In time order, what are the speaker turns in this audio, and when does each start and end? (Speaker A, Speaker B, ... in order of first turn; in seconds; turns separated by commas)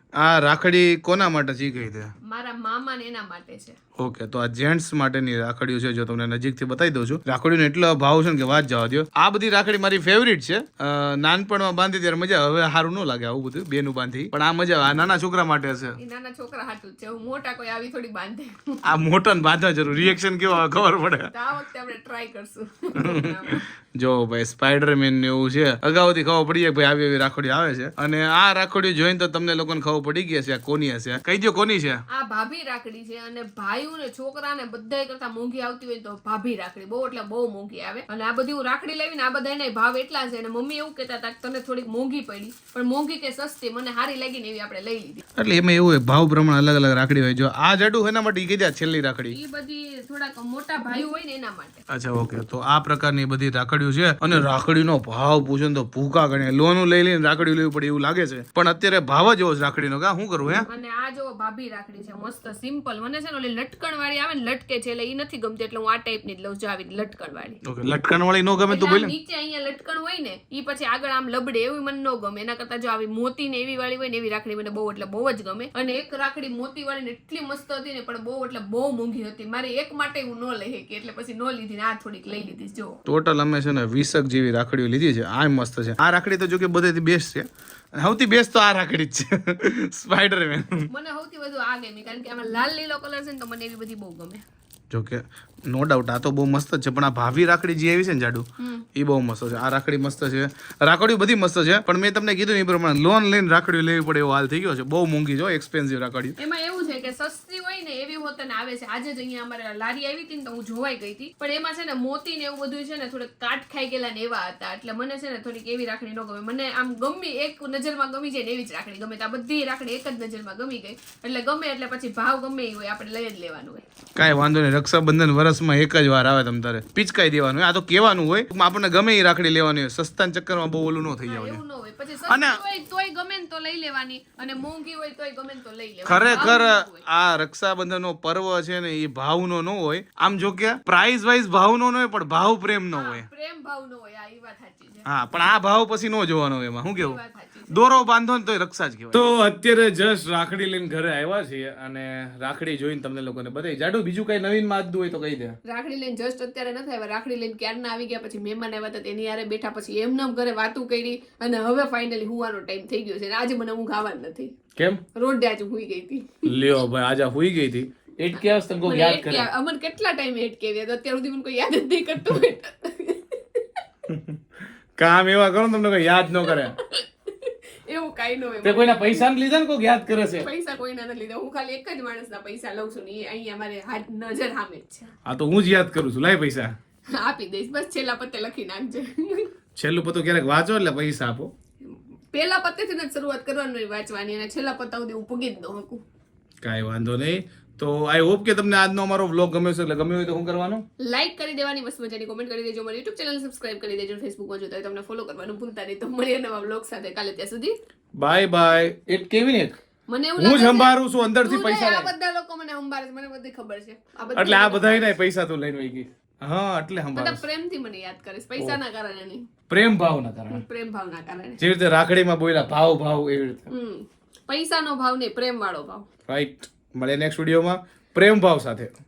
Speaker A: 0.2-2.1, Speaker B: 2.2-3.8, Speaker A: 4.0-16.0, Speaker B: 16.0-18.8, Speaker A: 18.8-21.3, Speaker B: 21.3-23.6, Speaker A: 22.9-32.0, Speaker B: 32.1-45.2, Speaker A: 45.4-49.4, Speaker B: 49.3-51.8, Speaker A: 51.9-60.7, Speaker B: 60.7-67.6, Speaker A: 67.6-69.1, Speaker B: 68.7-83.0, Speaker A: 83.1-90.9, Speaker B: 90.9-94.4, Speaker A: 94.9-106.4, Speaker B: 98.6-98.8, Speaker B: 106.4-123.8, Speaker A: 124.2-131.6, Speaker B: 131.3-137.0, Speaker A: 132.3-132.6, Speaker A: 136.1-143.3, Speaker B: 142.9-145.1, Speaker A: 145.1-155.6, Speaker B: 147.0-147.8, Speaker B: 155.7-164.6, Speaker B: 165.2-166.5, Speaker A: 166.5-169.5, Speaker B: 168.3-173.8, Speaker A: 174.1-174.4, Speaker A: 175.0-176.8, Speaker B: 176.4-179.3, Speaker A: 178.6-180.5, Speaker B: 180.4-185.1, Speaker A: 185.3-186.7, Speaker B: 187.1-189.5, Speaker A: 189.8-191.5, Speaker B: 191.8-196.0, Speaker A: 196.6-200.8, Speaker B: 201.0-207.8, Speaker A: 208.2-209.8, Speaker B: 210.1-215.2, Speaker A: 210.4-212.1, Speaker A: 214.3-217.4, Speaker B: 217.1-219.4, Speaker A: 219.7-220.6, Speaker B: 220.5-221.6, Speaker A: 221.6-223.7, Speaker B: 223.7-226.1, Speaker A: 226.3-228.9